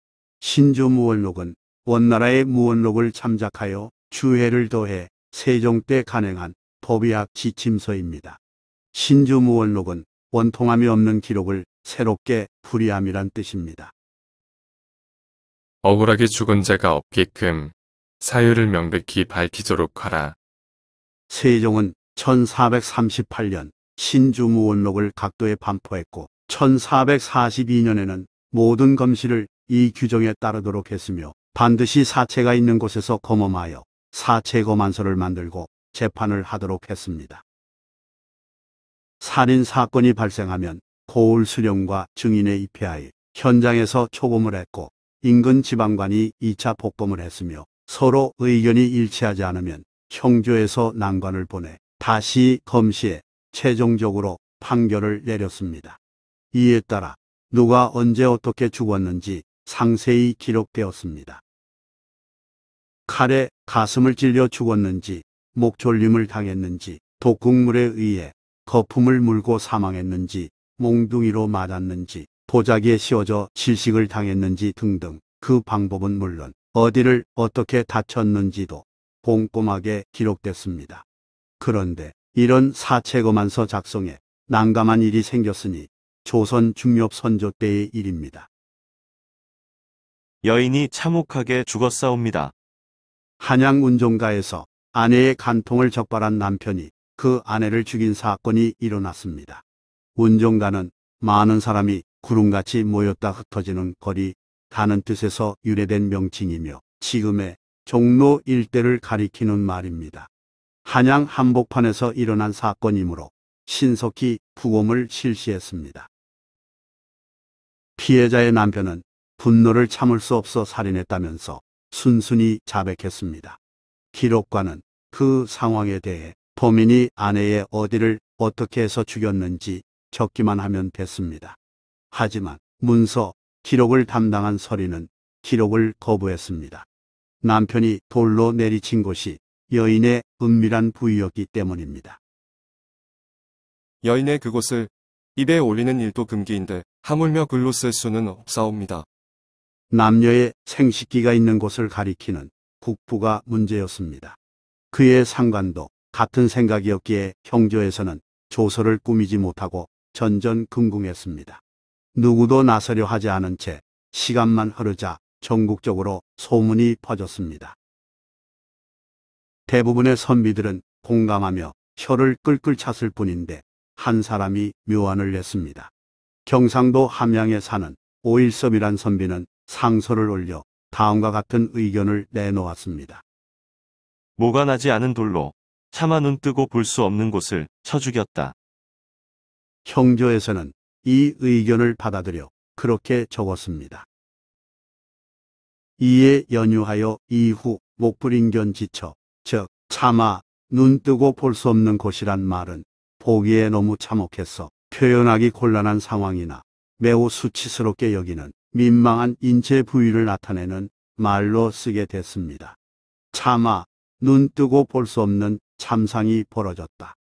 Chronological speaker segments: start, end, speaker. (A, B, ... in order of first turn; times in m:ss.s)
0:00.4-0:08.4 A
0:08.9-0:13.9 A
0:15.8-0:20.4 B
0:21.3-0:37.4 A
0:39.2-0:56.0 A
0:56.5-1:01.4 A
1:03.1-1:21.0 A
1:21.6-1:28.5 A
1:30.4-1:32.5 C
1:33.4-1:39.6 A
1:40.2-1:50.3 A
1:50.8-1:56.1 A
1:58.0-2:03.6 A
2:04.1-2:11.6 A
2:12.1-2:16.8 A
2:17.4-2:22.2 A
2:24.0-2:29.0 D
2:29.9-2:34.4 A
2:34.9-2:41.6 A
2:42.1-2:47.8 A
2:49.7-2:55.9 A
2:56.4-3:03.2 A
3:04.4-3:08.5 C
3:09.8-3:14.0 A
3:16.0-3:32.8 A
3:33.3-3:37.2 A